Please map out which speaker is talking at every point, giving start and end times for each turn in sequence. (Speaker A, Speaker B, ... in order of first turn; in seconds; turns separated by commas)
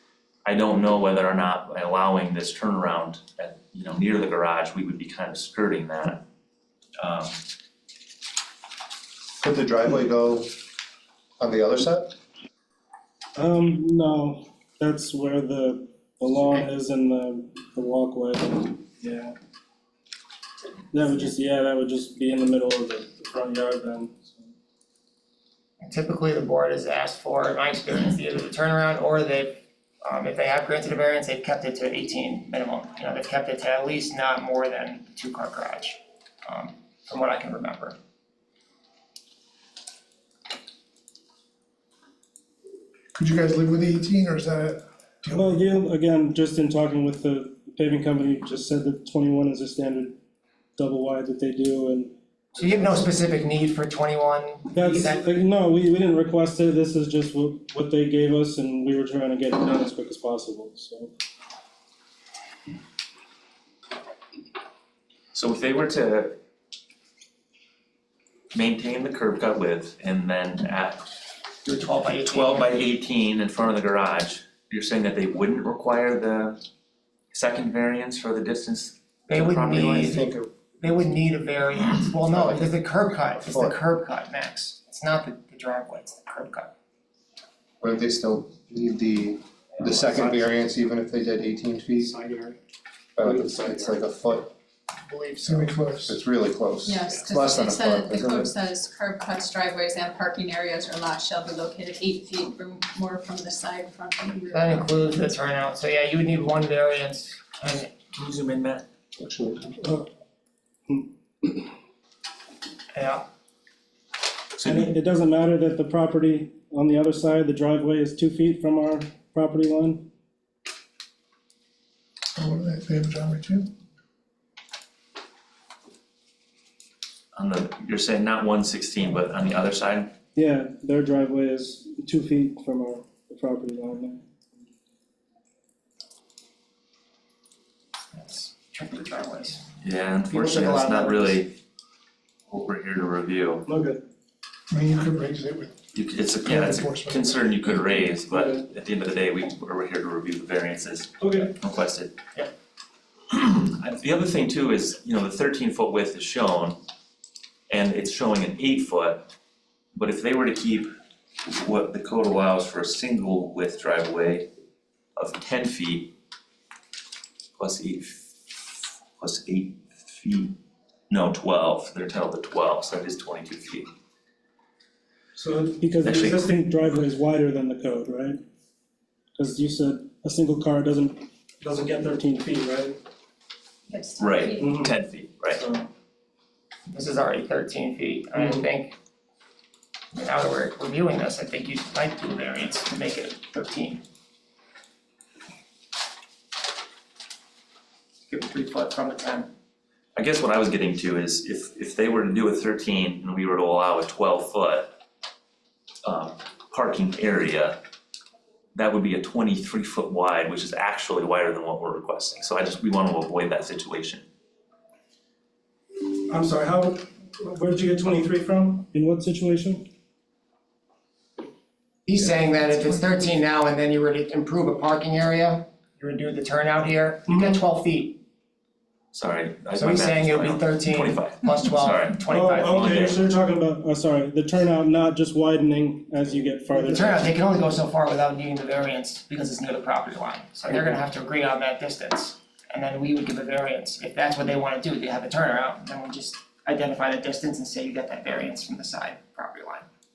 Speaker A: 0.4-6.2, Speaker A: 7.0-7.4, Speaker B: 9.4-10.5, Speaker B: 11.4-12.1, Speaker C: 13.3-19.3, Speaker C: 20.9-24.5, Speaker D: 25.8-38.0, Speaker E: 43.1-45.6, Speaker C: 45.3-50.2, Speaker C: 50.8-53.1, Speaker D: 52.6-55.2, Speaker C: 54.7-61.1, Speaker A: 65.3-66.4, Speaker A: 68.5-71.1, Speaker D: 71.6-72.8, Speaker A: 72.3-76.6, Speaker A: 77.3-80.2, Speaker D: 79.3-80.2, Speaker B: 80.0-80.5, Speaker D: 80.8-86.7, Speaker B: 83.4-83.8, Speaker B: 87.8-92.2, Speaker C: 90.0-90.5, Speaker C: 92.0-92.5, Speaker B: 93.2-94.5, Speaker C: 93.2-93.9, Speaker D: 95.1-95.8, Speaker E: 95.4-96.2, Speaker B: 96.1-98.5, Speaker F: 96.8-104.9, Speaker D: 104.5-107.9, Speaker A: 108.1-108.8, Speaker B: 109.2-109.9, Speaker C: 110.9-111.7, Speaker D: 112.9-113.2, Speaker A: 114.6-114.9, Speaker C: 114.6-120.1, Speaker E: 122.3-123.7, Speaker A: 127.3-130.1, Speaker C: 130.3-134.2, Speaker D: 138.1-139.7, Speaker A: 139.8-141.5, Speaker D: 140.3-141.4, Speaker A: 142.5-143.6, Speaker C: 143.7-144.0, Speaker E: 144.7-145.7, Speaker A: 145.9-152.1, Speaker E: 146.4-147.5, Speaker C: 148.3-148.6, Speaker C: 151.2-151.5, Speaker A: 153.3-156.8, Speaker A: 157.7-159.2, Speaker A: 159.9-160.9, Speaker A: 161.4-164.5, Speaker A: 165.2-166.1, Speaker A: 167.6-168.6, Speaker A: 169.2-170.5, Speaker A: 171.1-173.9, Speaker C: 175.3-178.4, Speaker A: 176.0-176.5, Speaker C: 179.3-183.0, Speaker F: 183.9-184.8, Speaker A: 184.2-185.6, Speaker C: 184.6-184.9, Speaker C: 185.6-185.9, Speaker D: 186.9-188.9, Speaker C: 188.3-188.7, Speaker D: 190.1-194.0, Speaker D: 198.3-199.5, Speaker A: 200.2-204.9, Speaker A: 206.0-207.8, Speaker A: 208.7-214.2, Speaker C: 216.3-219.9, Speaker D: 222.1-228.2, Speaker C: 227.3-227.6, Speaker A: 229.1-233.2, Speaker D: 229.7-233.0, Speaker C: 232.3-237.3, Speaker D: 236.7-249.8